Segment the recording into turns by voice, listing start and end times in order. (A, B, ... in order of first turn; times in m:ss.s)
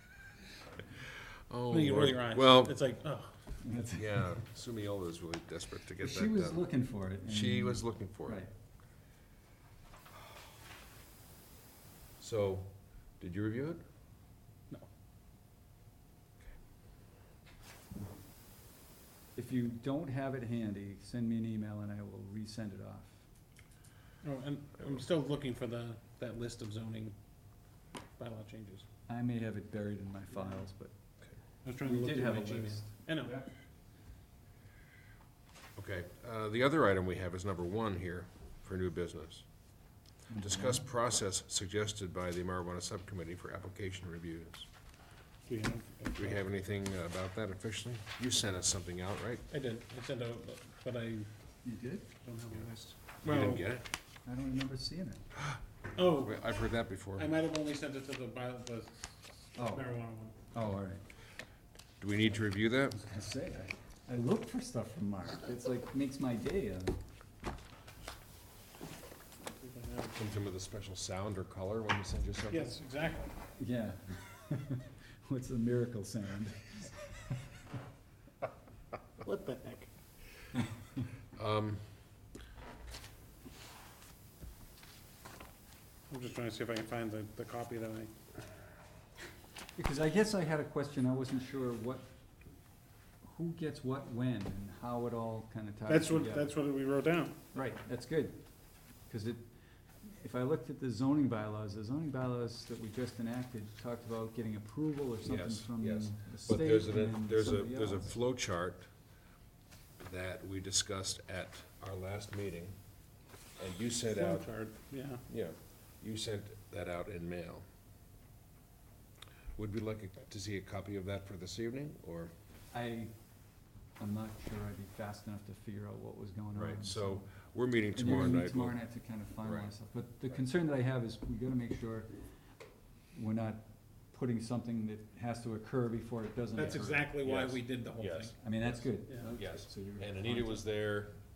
0:01.5-0:02.8 A
0:01.7-0:03.4 B
0:03.6-0:04.2 C
0:04.0-0:06.7 A
0:06.0-0:08.5 C
0:07.2-0:08.4 A
0:12.2-0:13.8 A
0:19.3-0:23.2 C
0:24.2-0:27.1 B
0:28.2-0:28.8 B
0:29.1-0:30.9 C
0:31.6-0:33.3 B
0:31.8-0:33.5 C
0:35.8-0:39.4 A
0:40.3-0:40.8 C
0:40.4-0:44.7 A
0:45.5-0:46.4 B
0:46.2-0:49.4 A
0:49.5-0:51.3 B
0:51.6-0:52.1 C
0:52.2-0:53.6 B
0:52.5-0:53.8 A
0:54.2-0:55.2 C
0:56.0-0:56.4 B
0:56.1-0:57.3 A
0:57.2-0:59.0 B
0:59.5-1:00.3 B
0:59.6-0:59.9 C
1:00.5-1:01.0 C
1:02.0-1:03.0 A
1:02.9-1:07.0 C
1:09.6-1:10.1 B
1:10.1-1:12.8 A
1:12.5-1:13.3 B
1:13.6-1:17.4 C
1:19.2-1:19.9 B
1:21.4-1:21.8 A
1:26.1-1:28.1 B
1:29.8-1:32.1 C
1:33.2-1:36.5 C
1:35.9-1:37.4 B
1:37.5-1:38.4 C
1:39.1-1:39.4 C
1:40.0-1:48.1 C
1:45.2-1:48.9 A
1:50.0-1:52.8 A
1:53.6-1:54.5 A
1:54.1-1:55.2 B
1:55.2-1:57.6 A
1:59.6-2:02.3 A
2:02.7-2:03.1 C
2:04.0-2:07.3 C
2:06.5-2:08.8 A
2:07.9-2:12.1 C
2:09.4-2:09.7 A
2:13.1-2:17.1 C
2:16.6-2:18.4 B
2:17.2-2:18.8 A
2:18.4-2:20.6 C
2:19.4-2:21.2 A